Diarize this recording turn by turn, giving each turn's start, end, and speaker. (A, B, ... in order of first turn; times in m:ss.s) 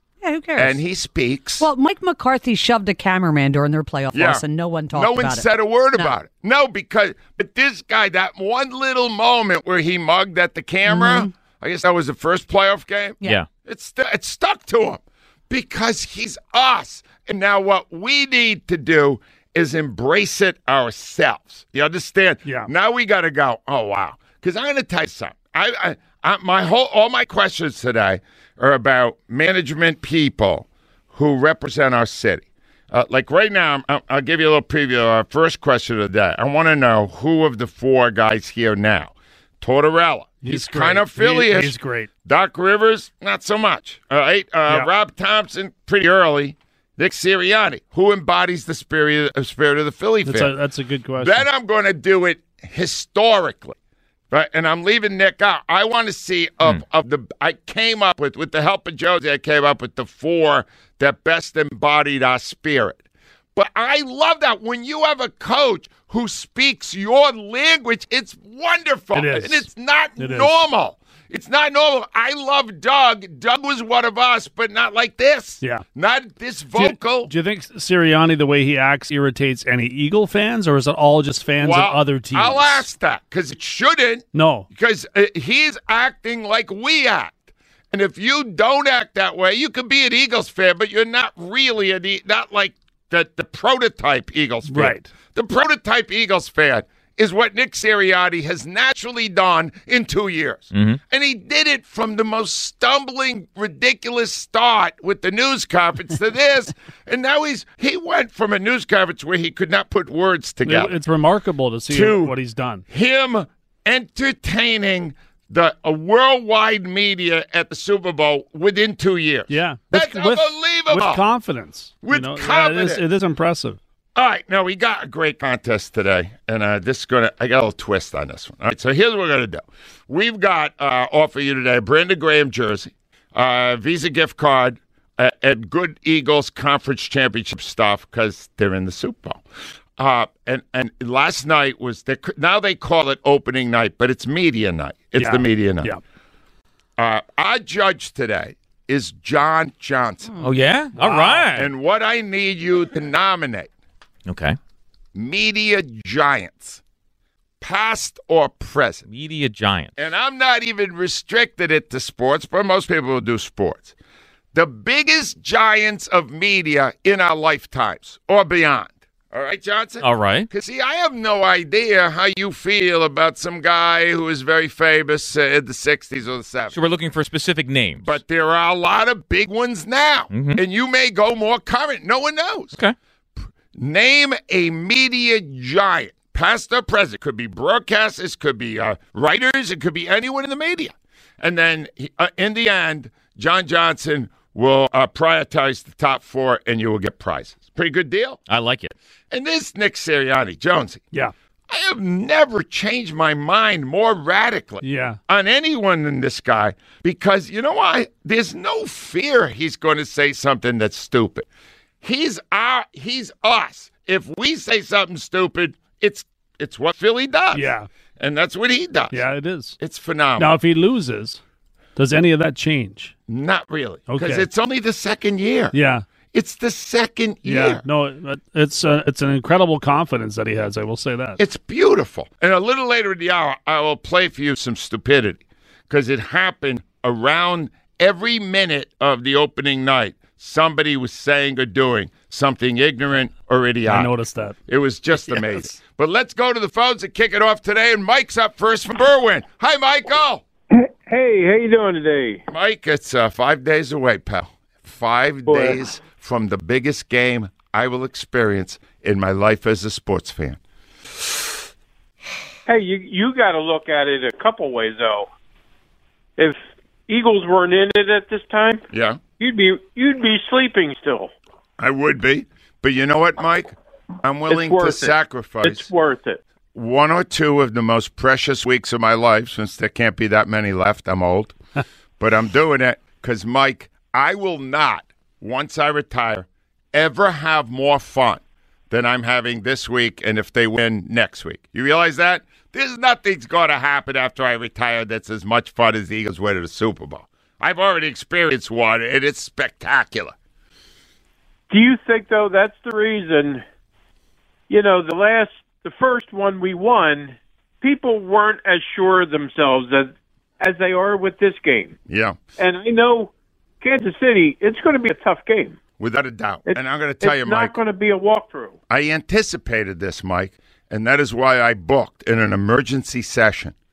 0:00.2-0:00.8 A
0:00.6-0:01.7 B
0:01.6-0:06.1 A
0:04.1-0:50.5 B
0:10.9-0:11.3 A
0:22.4-0:22.7 C
0:40.4-0:42.1 C
0:50.2-0:51.5 C
0:51.2-0:53.8 B
0:54.3-1:03.0 B
1:03.5-1:17.3 B
1:09.1-1:10.5 C
1:16.7-1:22.8 C
1:21.6-1:27.4 B
1:24.3-1:24.7 C
1:27.9-1:51.0 B
1:34.7-1:35.1 C
1:40.7-1:41.0 D
1:50.6-1:52.8 C
1:51.9-1:52.4 B
1:52.9-2:01.2 B
1:59.5-2:03.8 C
2:02.0-2:03.0 B
2:04.1-2:19.4 B
2:20.0-2:25.9 B
2:25.2-2:26.0 C
2:27.0-2:30.3 B
2:30.4-2:31.7 D
2:30.9-2:31.5 C
2:31.5-2:33.7 B
2:34.2-2:34.6 D
2:35.1-2:36.8 B
2:37.6-2:39.0 B
2:39.1-2:39.9 D
2:40.0-2:43.9 B
2:44.5-2:56.8 B
2:50.0-2:50.5 D
2:56.7-2:58.2 D
2:58.0-3:02.8 B
3:00.3-3:00.6 D
3:03.7-3:18.4 B
3:18.5-3:18.9 D
3:19.3-3:21.0 B
3:21.7-3:31.5 B
3:24.8-3:25.2 C
3:32.0-3:39.2 B
3:37.5-3:37.9 C
3:39.1-3:39.8 C
3:39.8-3:40.6 B
3:40.4-3:41.4 C
3:42.0-3:43.1 C
3:43.3-3:45.7 B
3:44.1-3:44.5 C
3:45.7-3:46.0 C
3:46.3-3:47.8 B
3:47.4-3:51.4 C
3:51.4-4:04.1 B
4:03.8-4:04.6 C
4:04.7-4:10.4 B
4:10.7-4:12.4 E
4:12.5-4:20.6 B
4:15.5-4:15.8 E
4:22.6-4:25.3 E
4:26.4-4:28.8 E
4:28.9-4:29.2 B
4:29.4-4:31.3 E
4:31.8-4:35.9 B
4:34.5-4:36.4 E
4:36.7-4:41.6 B
4:42.2-5:00.3 B
5:01.7-5:03.6 E
5:04.7-5:11.9 E
5:12.1-5:12.4 B
5:12.6-5:15.8 E
5:16.0-5:17.8 B
5:16.7-5:18.8 E
5:18.9-5:23.7 B